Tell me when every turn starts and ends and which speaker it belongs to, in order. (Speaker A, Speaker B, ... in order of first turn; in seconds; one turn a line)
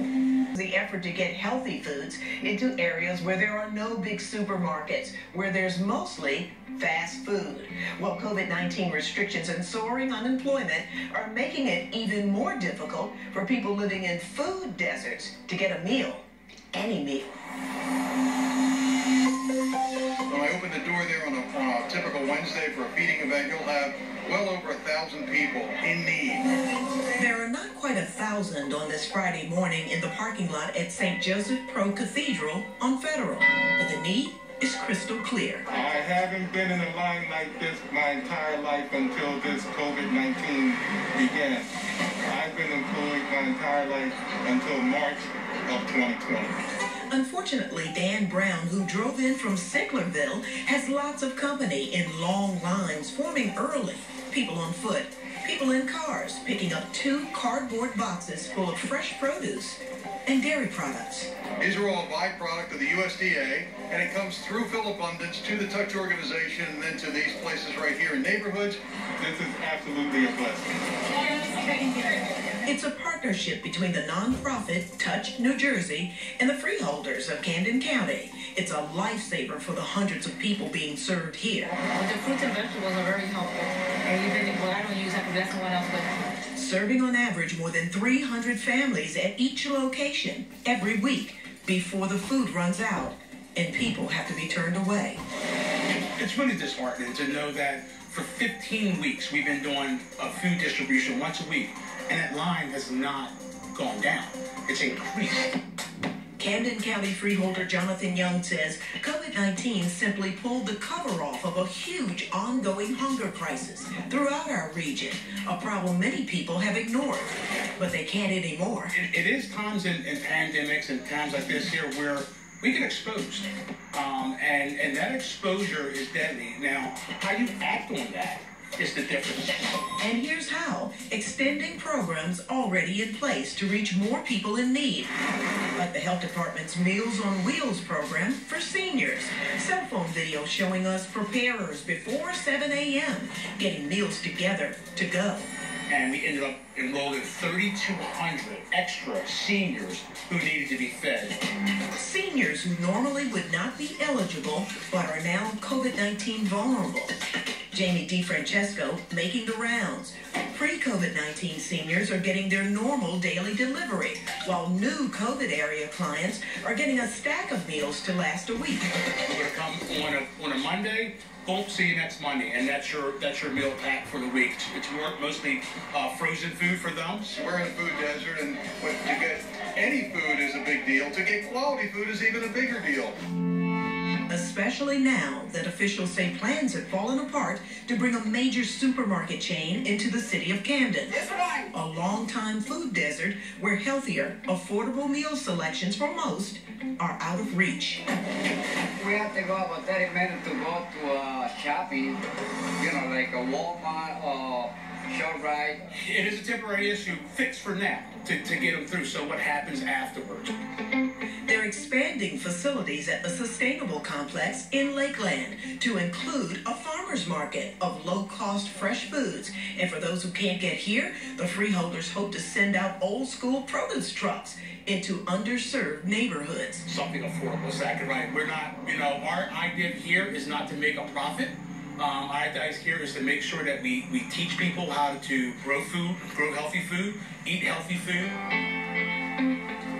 Speaker A: 0.5-17.3
Speaker B: 20.3-26.4
Speaker A: 27.1-35.7
Speaker C: 35.7-41.7
Speaker C: 42.3-46.6
Speaker A: 47.1-61.3
Speaker B: 61.6-68.8
Speaker C: 69.2-70.7
Speaker D: 71.5-71.9
Speaker A: 72.6-81.8
Speaker D: 82.0-86.0
Speaker A: 86.5-95.2
Speaker E: 96.2-105.6
Speaker A: 106.4-118.9
Speaker E: 118.9-129.6
Speaker A: 130.0-135.1
Speaker A: 135.7-145.4
Speaker E: 145.9-151.4
Speaker A: 151.9-157.1
Speaker A: 157.7-168.8
Speaker E: 169.2-177.3
Speaker B: 177.3-183.2
Speaker A: 184.3-191.2
Speaker A: 191.7-198.0
Speaker F: 199.0-202.2
Speaker F: 202.8-205.8
Speaker E: 205.9-210.5
Speaker A: 211.5-226.8
Speaker E: 226.8-238.4